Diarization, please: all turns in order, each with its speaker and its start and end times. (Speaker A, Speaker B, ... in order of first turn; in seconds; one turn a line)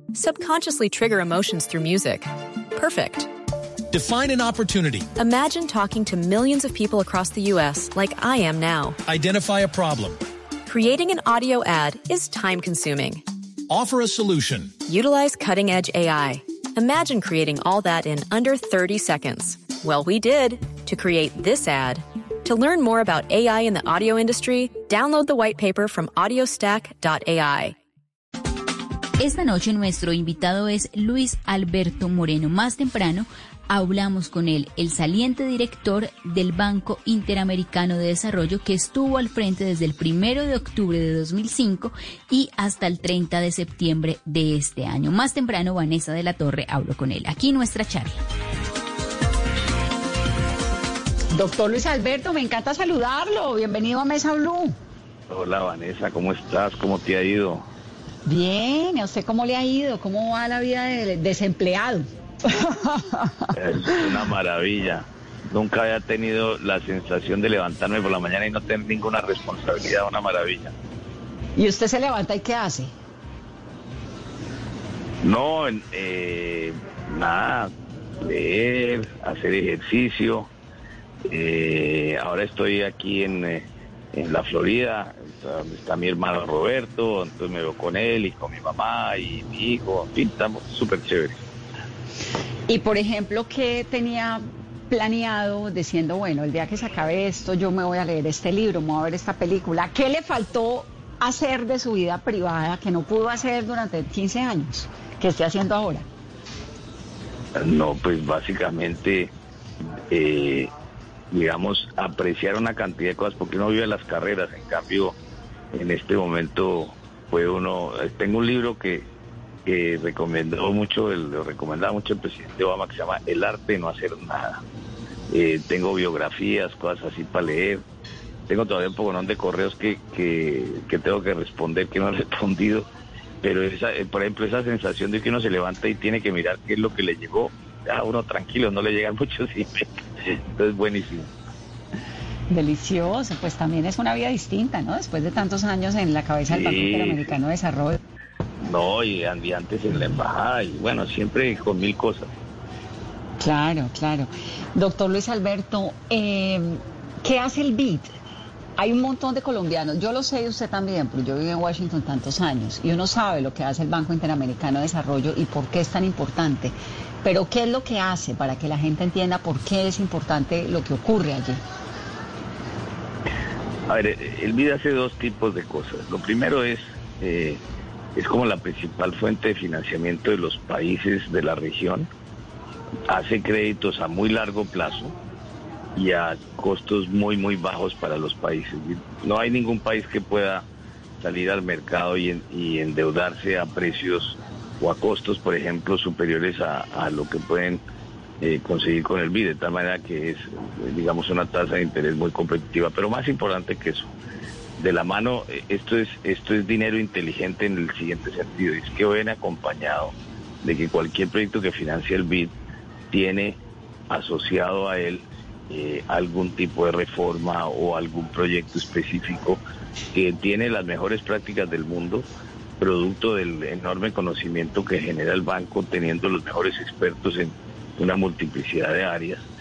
Speaker A: 0.1-3.3
Speaker B: 3.9-5.1
Speaker A: 5.2-9.0
Speaker B: 9.1-10.2
Speaker A: 10.7-13.2
Speaker B: 13.7-14.8
Speaker A: 14.9-27.8
Speaker C: 29.2-48.2
Speaker D: 51.3-54.8
Speaker E: 55.3-57.7
Speaker D: 58.3-63.5
Speaker E: 63.5-70.7
Speaker D: 71.6-72.9
Speaker E: 75.2-80.5
Speaker E: 81.2-91.4
Speaker D: 92.7-106.1
Speaker E: 107.5-109.3
Speaker E: 110.1-110.7
Speaker E: 111.3-115.2
Speaker E: 115.7-119.1
Speaker E: 119.7-124.6
Speaker E: 125.3-127.8
Speaker E: 128.5-132.9
Speaker E: 133.4-141.3
Speaker D: 142.5-148.0
Speaker E: 146.5-147.3
Speaker E: 148.6-152.3
Speaker D: 153.4-158.2
Speaker D: 158.8-171.6
Speaker E: 173.9-177.6
Speaker E: 178.2-182.1
Speaker E: 183.1-185.2
Speaker E: 185.9-190.7
Speaker E: 191.2-197.8
Speaker E: 198.4-204.1
Speaker E: 204.8-212.5
Speaker E: 213.1-219.6
Speaker E: 220.1-222.2
Speaker E: 222.8-229.5